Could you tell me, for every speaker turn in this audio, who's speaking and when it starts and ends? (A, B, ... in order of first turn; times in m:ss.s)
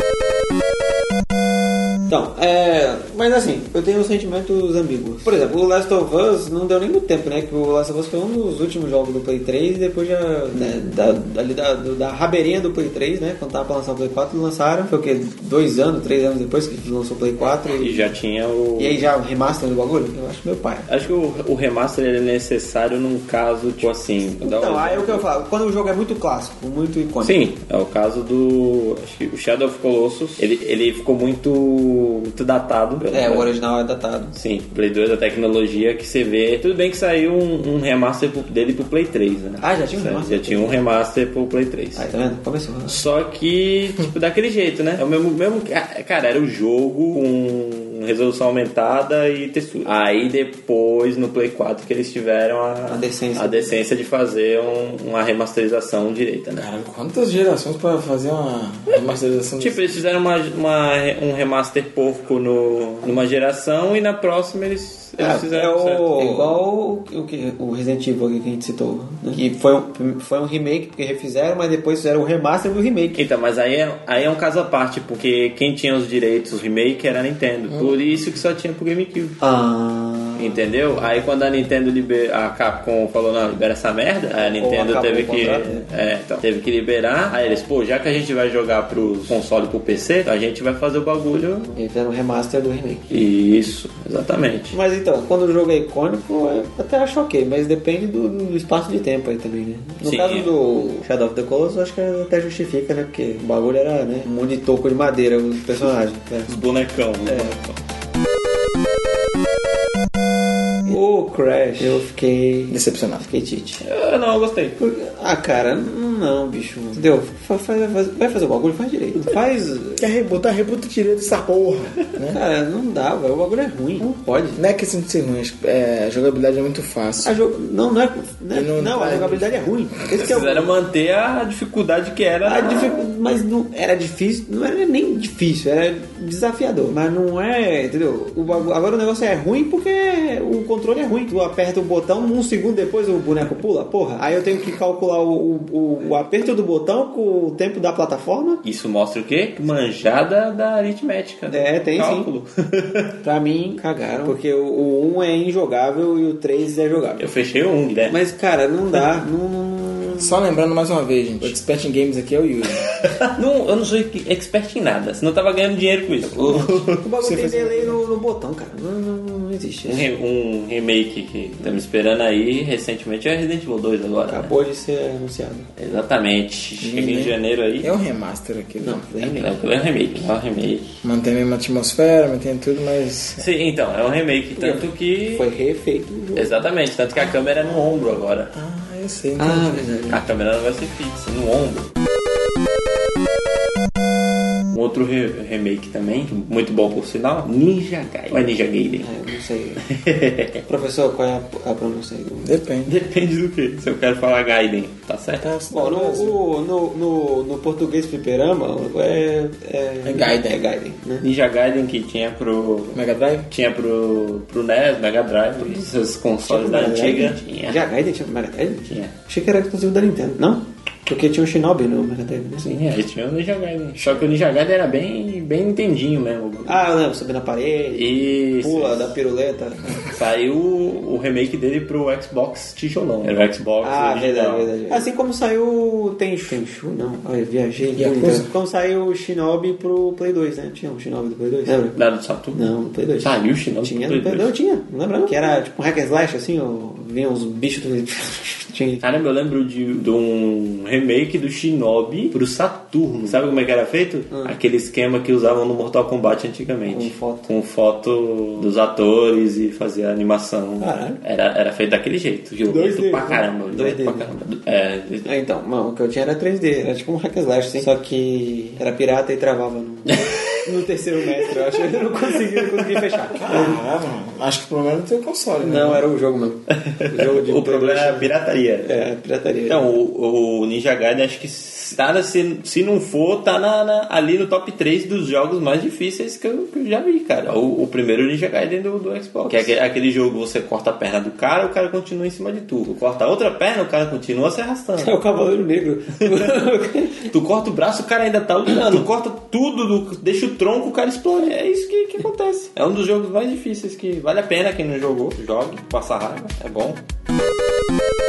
0:02.1-0:18.2 A
0:17.4-0:19.0 B
0:18.8-0:20.9 A
0:20.9-0:25.2 B
0:24.4-0:27.4 A
0:27.2-0:33.5 B
0:33.1-0:34.4 A
0:34.4-0:42.0 B
0:39.6-0:40.8 A
0:42.0-0:43.0 A
0:42.9-0:56.7 B
0:52.9-0:53.7 A
0:56.6-0:59.9 C
0:59.6-1:06.6 B
1:05.2-1:13.2 A
1:13.2-1:19.4 B
1:17.7-1:18.0 C
1:19.4-1:20.7 A
1:20.4-1:31.7 B
1:24.3-1:25.9 A
1:31.8-1:33.2 A
1:33.1-1:34.8 B
1:34.7-1:46.5 A
1:40.0-1:40.5 B
1:46.5-1:47.8 B
1:47.3-1:47.6 A
1:50.9-1:53.8 A
1:52.7-1:53.2 C
1:53.8-1:54.8 B
1:54.8-2:00.1 A
2:00.0-2:02.4 C
2:02.3-2:04.6 A
2:04.6-2:07.3 C
2:07.2-2:10.7 A
2:08.5-2:09.7 C
2:10.1-2:13.1 B
2:12.4-2:28.6 A
2:28.6-2:33.1 B
2:31.5-2:32.3 A
2:33.2-2:37.3 A
2:37.2-2:38.2 B
2:38.1-2:40.4 A
2:40.2-2:42.9 C
2:43.1-2:47.0 B
2:46.4-2:50.1 A
2:47.2-2:48.0 C
2:49.9-2:54.5 B
2:54.3-2:55.7 A
2:55.8-2:57.9 B
2:56.8-2:59.1 C
2:58.8-2:59.6 A
2:59.2-3:01.0 B
3:01.0-3:03.4 C
3:03.4-3:05.5 B
3:04.6-3:06.7 A
3:06.4-3:08.5 B
3:08.5-3:09.8 C
3:09.4-3:10.2 A
3:10.1-3:11.9 B
3:14.7-3:19.1 B
3:19.0-3:19.8 A
3:19.8-3:20.6 B
3:20.7-3:22.5 A
3:22.4-3:23.0 C
3:22.9-3:25.5 B
3:25.4-3:26.4 C
3:25.7-3:31.2 A
3:30.0-3:30.6 C
3:31.2-3:37.8 B
3:32.9-3:33.5 C
3:36.5-3:42.7 A
3:42.6-3:46.9 B
3:46.7-3:50.0 A
3:47.9-3:49.2 B
3:50.0-3:55.0 B
3:53.2-4:02.0 A
3:58.0-3:58.5 C
4:01.9-4:02.7 B
4:02.5-4:09.1 A
4:03.2-4:04.5 B
4:09.0-4:25.3 B
4:16.9-4:17.5 A
4:20.8-4:21.2 A
4:22.7-4:24.3 A
4:25.2-4:33.8 A
4:30.2-4:30.6 B
4:31.7-4:33.3 B
4:33.3-4:36.1 C
4:35.6-4:38.3 A
4:36.7-4:39.0 B
4:38.8-4:39.9 A
4:39.7-4:55.1 B
4:55.0-4:57.3 A
4:57.2-5:07.0 B